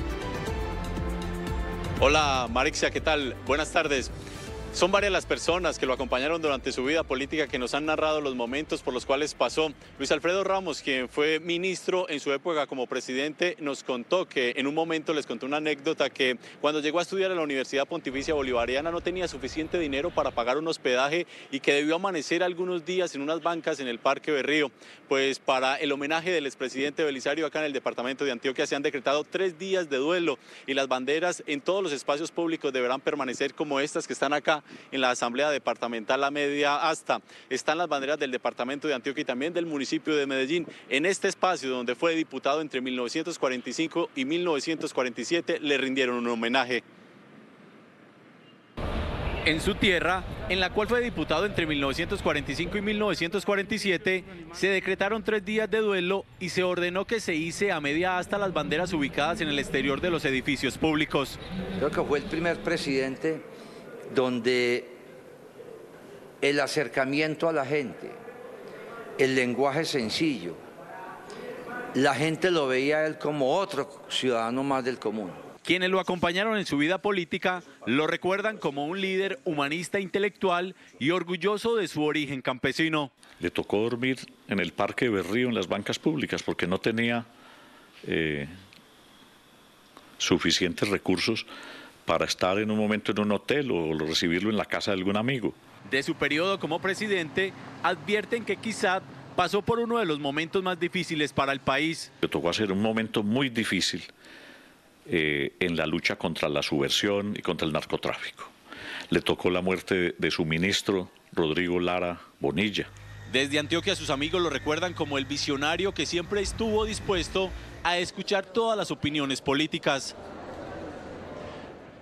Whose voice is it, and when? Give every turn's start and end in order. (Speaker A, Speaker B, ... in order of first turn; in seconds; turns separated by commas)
Speaker A: 2.0-4.1, Speaker A: 4.7-46.8, Speaker A: 49.5-61.4, Speaker B: 61.8-63.5, Speaker B: 64.1-65.0, Speaker B: 66.4-68.2, Speaker B: 69.2-70.6, Speaker B: 71.9-75.4, Speaker A: 75.7-83.1, Speaker C: 83.4-87.3, Speaker C: 88.0-88.5, Speaker C: 90.2-91.5, Speaker C: 92.1-95.6, Speaker A: 95.9-102.1, Speaker C: 102.2-104.1, Speaker C: 105.1-108.5, Speaker C: 109.1-112.9, Speaker A: 113.3-120.2